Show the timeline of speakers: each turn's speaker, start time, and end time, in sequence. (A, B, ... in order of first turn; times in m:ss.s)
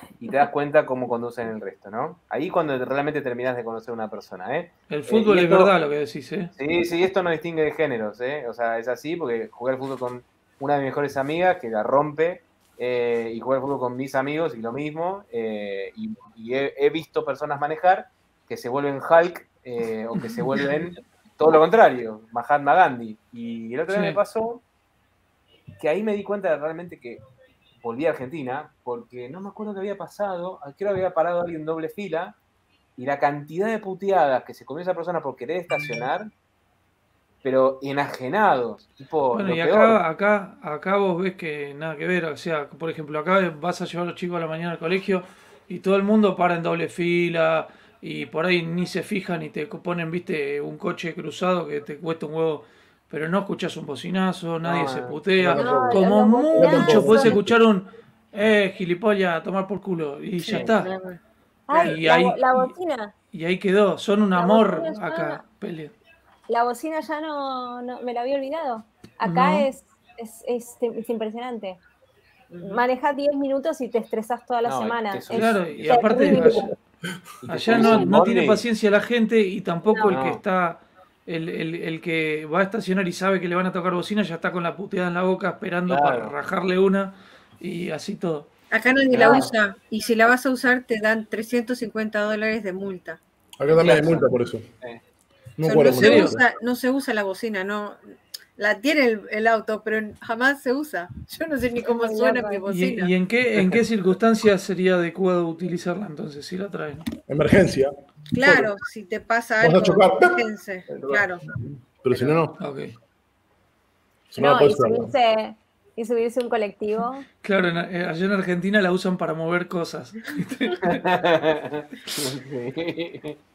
0:00.2-0:05.7 A
0:04.9-0:06.5 B
0:06.6-0:24.6 A
0:20.2-0:20.7 B
0:23.9-0:24.2 B
0:25.8-0:27.2 A
0:27.8-0:32.4 A
0:33.0-0:36.3 A
0:37.4-0:40.0 A
0:39.3-1:00.9 B
0:54.6-0:55.2 A
0:55.4-0:57.6 C
0:55.6-0:57.4 D
1:00.4-1:00.8 A
1:00.4-1:01.2 E
1:01.7-1:03.1 D
1:01.8-1:02.7 B
1:03.3-1:05.9 B
1:04.4-1:05.4 D
1:06.5-1:11.8 D
1:09.2-1:09.7 B
1:12.5-1:12.8 E
1:12.6-1:16.7 D
1:14.6-1:16.1 A
1:15.3-1:16.8 B
1:17.4-1:18.6 A
1:17.5-1:28.5 B
1:19.9-1:20.1 D
1:20.1-1:20.4 A
1:25.9-1:26.3 A
1:28.7-1:33.2 E
1:29.1-1:29.5 A
1:29.2-1:29.4 D
1:33.6-1:34.6 C
1:33.7-1:34.3 A
1:35.6-1:36.4 C
1:35.6-1:38.0 E
1:35.9-1:36.4 B
1:38.6-1:43.1 E
1:42.0-1:42.6 D
1:42.7-1:47.1 B
1:47.3-1:47.9 C
1:48.3-1:51.4 E
1:48.4-1:48.7 C
1:49.6-1:52.6 C
1:52.1-1:52.4 A
1:52.6-1:52.9 B
1:54.3-1:55.1 C
1:54.4-1:57.2 D
1:57.4-2:01.0 B
2:00.8-2:03.4 A